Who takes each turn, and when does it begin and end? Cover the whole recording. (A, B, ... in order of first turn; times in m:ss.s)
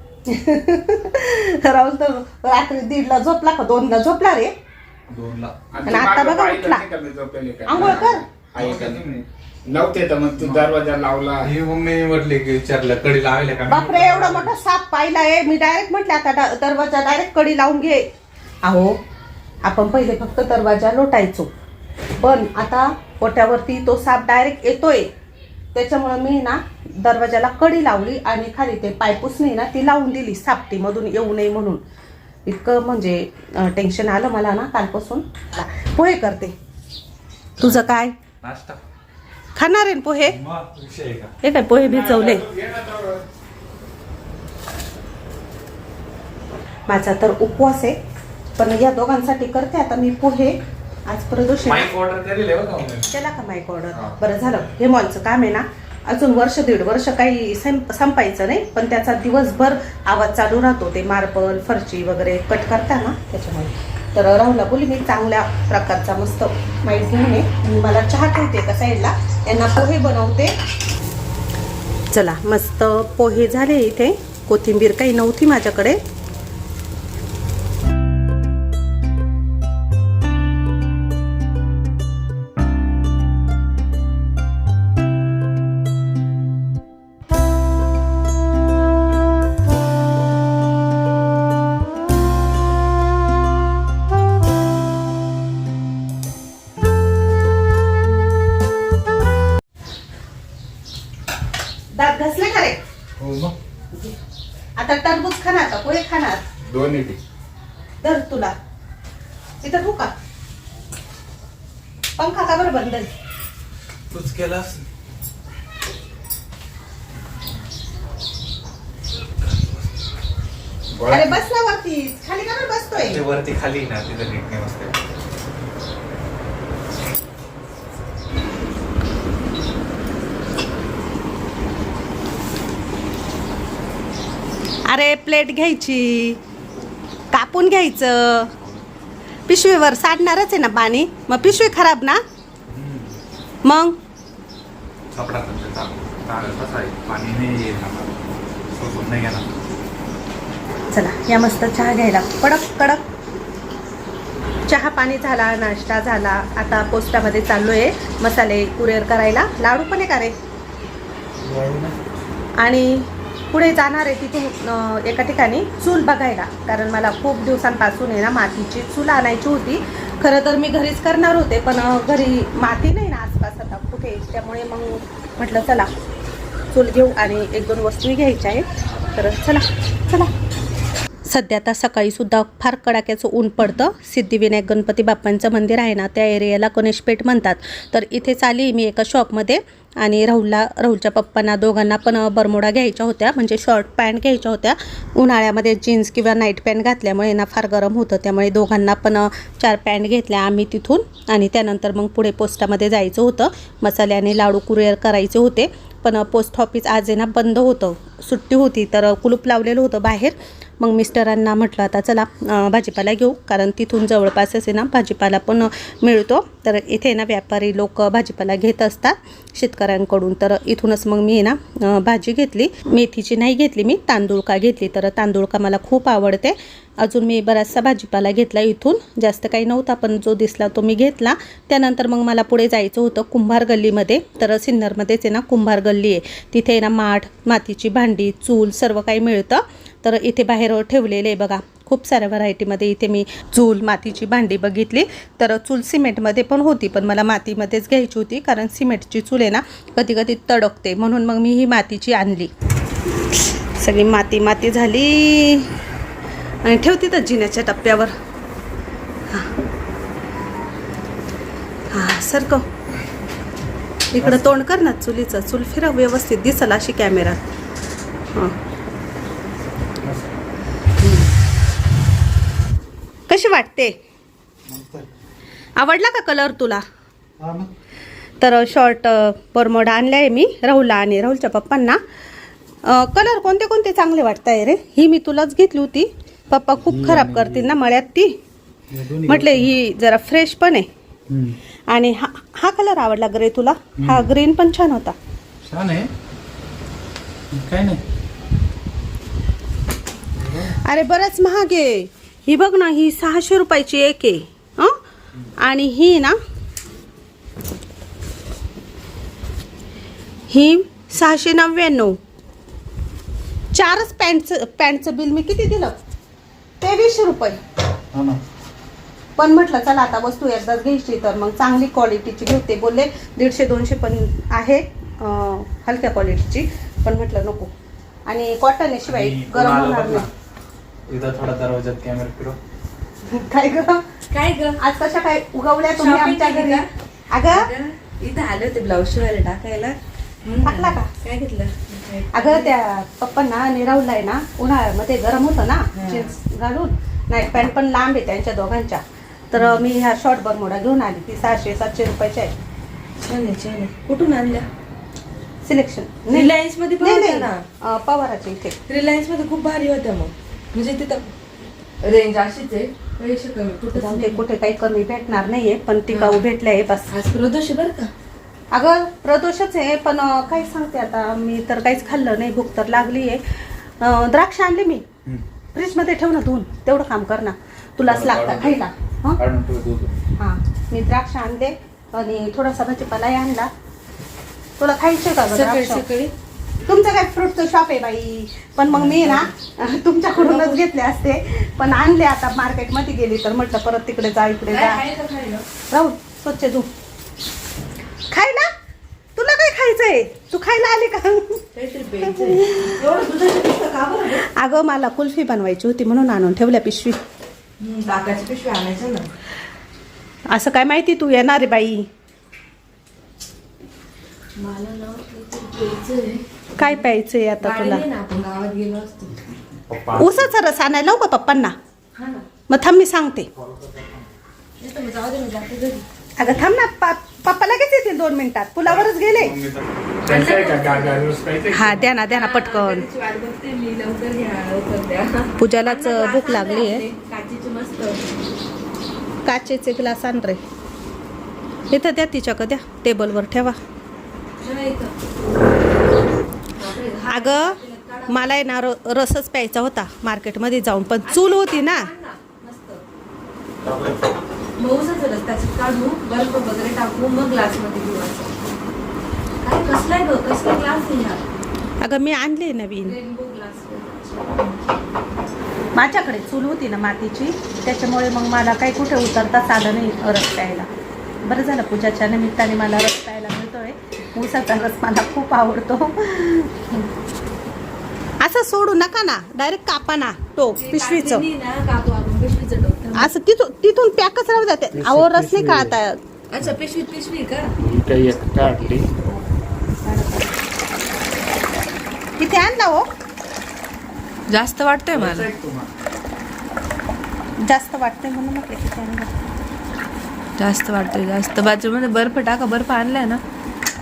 0:00.3-0:04.5 A
0:05.1-0:05.8 B
0:05.7-0:11.5 C
0:05.9-0:06.8 A
0:07.7-0:08.2 A
0:07.8-0:08.0 B
0:08.6-0:09.2 B
0:10.4-0:10.7 B
0:11.4-0:14.5 B
0:13.7-0:18.1 A
0:18.6-0:19.0 A
0:19.6-0:21.5 A
0:22.2-0:25.1 A
0:25.7-0:31.8 A
0:32.5-0:36.5 A
0:37.6-0:37.9 B
0:37.6-0:38.2 A
0:38.4-0:38.8 B
0:39.6-0:40.4 A
0:40.3-0:41.3 B
0:41.4-0:42.5 A
0:41.8-0:43.2 C
0:46.9-0:48.0 A
0:48.6-0:51.9 A
0:51.6-0:53.1 B
0:53.1-1:10.5 A
1:12.1-1:16.0 A
1:41.9-1:42.8 A
1:43.2-1:43.5 C
1:44.8-1:46.4 A
1:46.6-1:47.2 C
1:48.0-1:48.5 A
1:49.6-1:50.1 A
1:52.2-1:53.1 A
1:54.1-1:54.8 B
2:01.0-2:01.3 C
2:01.1-2:03.2 A
2:03.0-2:04.9 B
2:14.9-2:16.4 A
2:17.3-2:18.5 A
2:19.5-2:22.2 A
2:22.7-2:23.2 B
2:23.6-2:24.0 A
2:25.1-2:28.2 B
2:28.8-2:29.5 B
2:30.9-2:33.0 A
2:34.7-2:40.3 A
2:41.4-2:42.0 B
2:42.6-2:55.9 A
2:56.7-3:00.3 A
3:01.2-4:12.5 A
4:13.8-4:15.7 A
4:16.6-4:18.1 A
4:21.9-4:22.6 A
4:24.1-4:27.4 A
4:24.2-4:24.5 B
4:30.0-4:30.4 B
4:31.0-4:31.3 A
4:33.3-4:33.9 A
4:34.7-4:35.1 B
4:35.8-4:36.8 A
4:37.4-4:37.7 B
4:38.4-4:42.0 A
4:42.8-4:48.4 A
4:46.8-4:47.7 B
4:48.9-4:49.7 B
4:49.2-4:50.9 A
4:51.3-4:51.6 B
4:51.9-4:55.1 A
4:54.0-4:54.3 B
4:55.6-4:56.1 B
4:57.5-4:58.0 B
5:00.4-5:00.7 B
5:00.8-5:05.0 A
5:05.6-5:06.4 A
5:10.5-5:12.2 A
5:13.7-5:15.9 A
5:16.8-5:17.6 A
5:18.1-5:18.4 B
5:19.4-5:27.7 A
5:28.3-5:30.3 A
5:29.1-5:30.3 B
5:31.1-5:32.6 B
5:33.2-5:34.0 A
5:34.3-5:34.8 D
5:34.8-5:37.7 A
5:35.9-5:36.9 D
5:37.5-5:42.7 D
5:40.6-5:41.1 A
5:42.3-5:52.5 A
5:45.9-5:46.4 D
5:49.6-5:49.8 D
5:53.2-5:54.7 D
5:55.6-5:58.8 A
5:56.3-5:57.6 D
5:58.9-6:01.3 D
6:02.0-6:04.4 D
6:03.9-6:07.1 A
6:06.1-6:06.4 D
6:07.1-6:08.1 D
6:08.7-6:13.4 A
6:14.0-6:15.0 A
6:15.7-6:19.4 A
6:18.1-6:18.8 B
6:19.4-6:20.1 B
6:20.4-6:23.7 A
6:24.8-6:26.0 A
6:25.5-6:26.3 D
6:26.9-6:35.0 A
6:28.9-6:29.5 D
6:30.3-6:30.8 D
6:34.7-6:35.6 D
6:35.9-6:36.9 A
6:38.3-6:38.7 A
6:39.4-6:41.6 A
6:41.8-6:44.4 D
6:42.3-6:43.3 A
6:44.4-6:47.2 A
6:47.8-6:49.3 D
6:50.5-6:52.1 A
6:54.6-6:57.0 D
6:56.8-6:58.0 A
6:57.6-6:59.4 D
6:59.7-7:00.5 B
7:00.2-7:01.8 A
7:02.2-7:02.4 D
7:02.7-7:03.5 A
7:03.6-7:04.2 B
7:04.8-7:06.0 D
7:06.4-7:09.6 A
7:08.8-7:09.8 B
7:10.2-7:11.4 D
7:10.2-7:12.1 C
7:11.7-7:13.0 A
7:12.3-7:18.4 D
7:15.6-7:17.1 A
7:19.4-7:20.6 A
7:21.9-7:23.8 A
7:24.6-7:25.1 D
7:26.8-7:28.6 D
7:27.3-7:27.8 A
7:28.3-7:32.1 A
7:31.2-7:33.0 D
7:34.8-7:38.5 D
7:39.6-7:41.4 D
7:42.0-7:43.2 A
7:43.0-7:45.0 D
7:45.9-7:50.9 A
7:51.4-7:57.0 A
7:58.4-8:01.4 A
8:00.8-8:03.3 D
8:03.1-8:06.2 A
8:05.1-8:05.9 C
8:06.5-8:07.7 D
8:07.8-8:09.1 C
8:10.0-8:10.6 A
8:12.4-8:13.0 A
8:14.5-8:15.5 D
8:15.1-8:15.9 B
8:17.6-8:19.3 A
8:20.6-8:23.4 D